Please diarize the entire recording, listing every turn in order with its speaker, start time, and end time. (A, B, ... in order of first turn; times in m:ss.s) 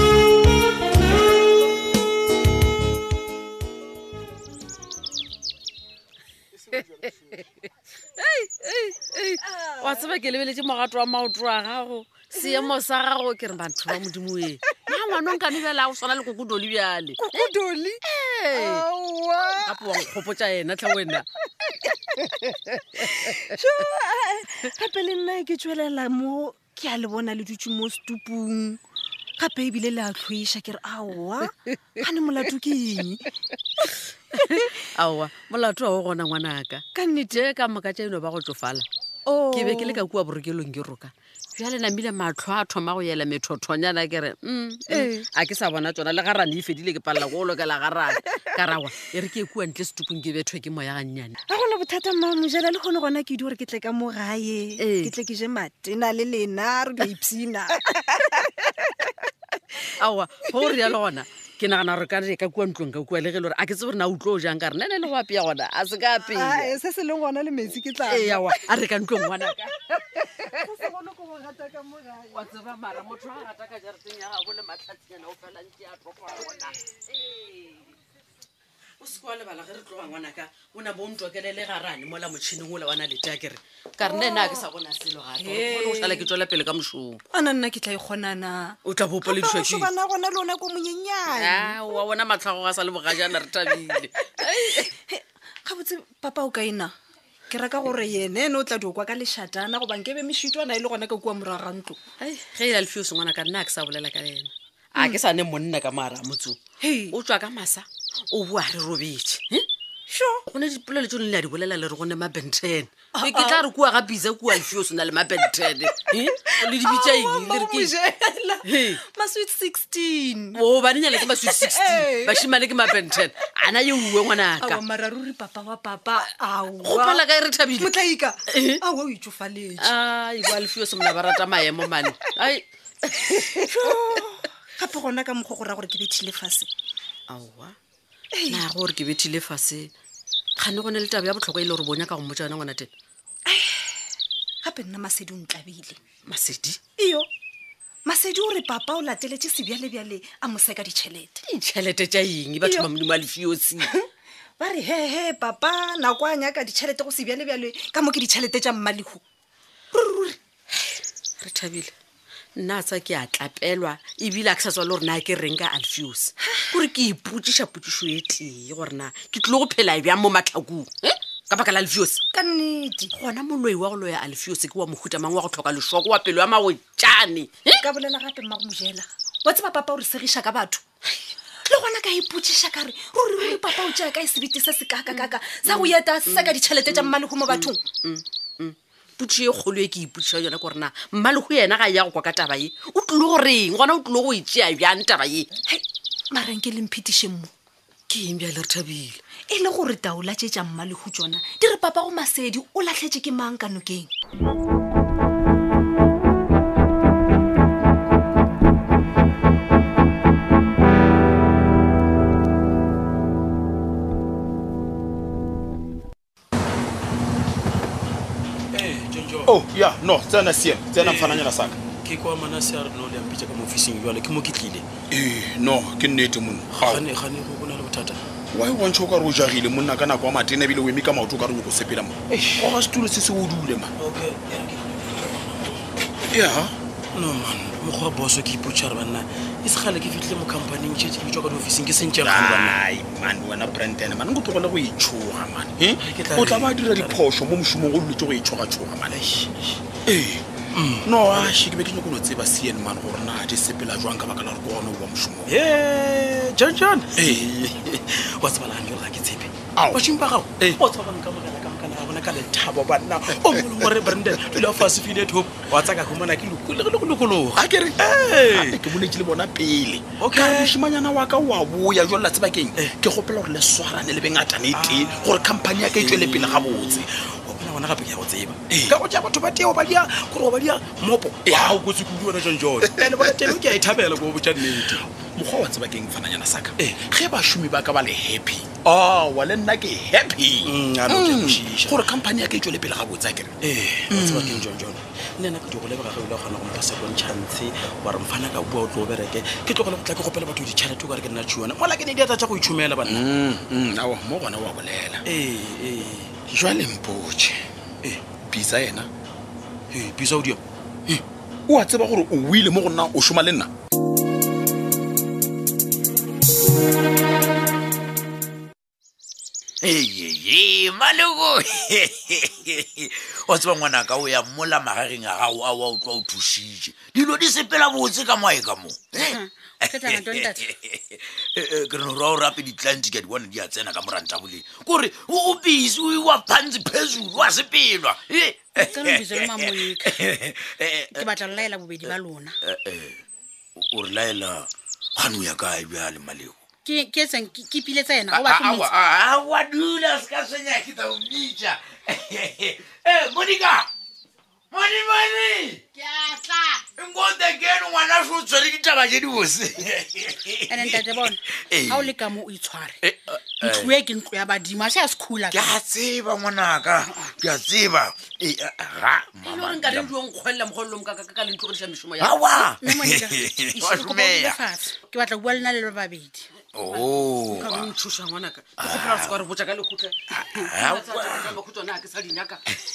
0:06.7-0:07.4 A
0:08.2-0:17.5 A
0:09.4-0:10.0 B
0:12.4-0:12.7 B
0:17.2-0:18.0 B
0:18.0-0:18.8 A
0:18.5-0:20.1 B
0:19.6-0:21.3 A
0:22.4-0:22.8 A
0:23.0-0:28.8 B
0:29.4-0:33.3 B
0:34.4-0:38.9 A
0:36.9-0:37.4 B
0:39.2-0:40.0 B
0:39.5-0:51.4 A
0:44.9-0:45.3 B
0:51.5-0:59.1 B
0:54.8-0:55.1 A
1:00.0-1:06.7 A
1:06.2-1:08.6 B
1:08.0-1:10.1 A
1:10.3-1:12.3 B
1:12.3-1:17.8 A
1:19.0-1:27.2 A
1:24.0-1:24.6 B
1:25.4-1:26.3 B
1:27.3-1:32.0 B
1:28.8-1:29.9 A
1:31.3-1:34.9 A
1:34.4-1:36.9 B
1:37.5-1:42.0 B
1:42.2-1:49.7 A
1:46.8-1:47.2 B
1:50.1-1:50.4 B
1:50.5-1:57.9 A
1:53.1-1:53.6 B
1:56.0-2:02.5 B
1:58.6-1:59.0 A
2:00.5-2:04.8 A
2:04.6-2:09.9 B
2:06.8-2:07.9 A
2:08.5-2:08.8 A
2:09.8-2:13.8 A
2:13.6-2:16.7 B
2:17.3-2:17.8 A
2:18.3-2:18.7 B
2:18.5-2:19.9 A
2:20.6-2:22.9 A
2:23.5-2:23.9 B
2:24.6-2:26.0 B
2:26.2-2:26.8 A
2:27.0-2:27.3 B
2:28.0-2:31.4 B
2:31.4-2:33.9 A
2:32.6-2:32.9 B
2:33.8-2:34.1 B
2:34.6-2:39.2 B
2:39.9-2:40.4 B
2:41.4-2:41.9 A
2:42.5-2:52.2 A
2:52.3-2:53.1 B
2:53.1-2:57.9 A
2:57.7-3:00.8 B
3:01.6-3:07.8 B
3:03.4-3:04.0 A
3:05.1-3:15.5 A
3:15.7-3:17.5 B
3:18.1-3:19.2 A
3:19.5-3:24.1 B
3:38.7-3:39.5 C
3:39.5-3:41.8 D
3:41.0-3:44.8 C
3:45.1-3:47.0 D
3:46.7-3:48.2 C
3:48.5-3:53.9 D
3:52.3-3:52.7 C
3:54.0-3:55.8 C
3:56.3-3:56.8 D
3:57.1-4:02.8 C
4:02.2-4:09.2 D
4:06.0-4:07.2 C
4:09.1-4:10.0 C
4:10.0-4:10.4 D
4:10.7-4:11.5 C
4:11.0-4:15.5 D
4:15.5-4:28.8 C
4:17.2-4:17.5 D
4:19.7-4:20.0 D
4:23.6-4:24.1 D
4:27.6-4:37.1 D
4:30.2-4:30.8 C
4:34.7-4:45.0 C
4:41.5-4:41.8 D
4:42.8-4:43.4 D
4:44.8-4:53.6 D
4:50.6-4:52.1 C
4:53.6-5:03.2 C
4:54.1-4:54.6 D
5:03.1-5:05.2 D
5:05.2-5:06.3 C
5:06.5-5:07.6 D
5:08.4-5:09.1 D
5:09.9-5:11.2 C
5:11.7-5:13.7 D
5:19.8-5:43.2 E
5:29.2-5:30.6 F
5:38.8-5:40.1 F
5:41.1-5:42.6 F
5:43.8-5:46.6 E
5:46.8-5:48.9 F
5:48.3-5:53.9 E
5:54.7-6:02.2 E
6:00.7-6:03.0 F
6:03.0-6:04.0 E
6:03.6-6:05.7 F
6:05.5-6:10.1 E
6:09.4-6:12.3 A
6:12.2-6:14.7 E
6:12.4-6:16.5 F
6:16.7-6:17.9 E
6:16.9-6:20.2 A
6:18.8-6:19.4 E
6:20.3-6:21.5 E
6:20.8-6:22.7 A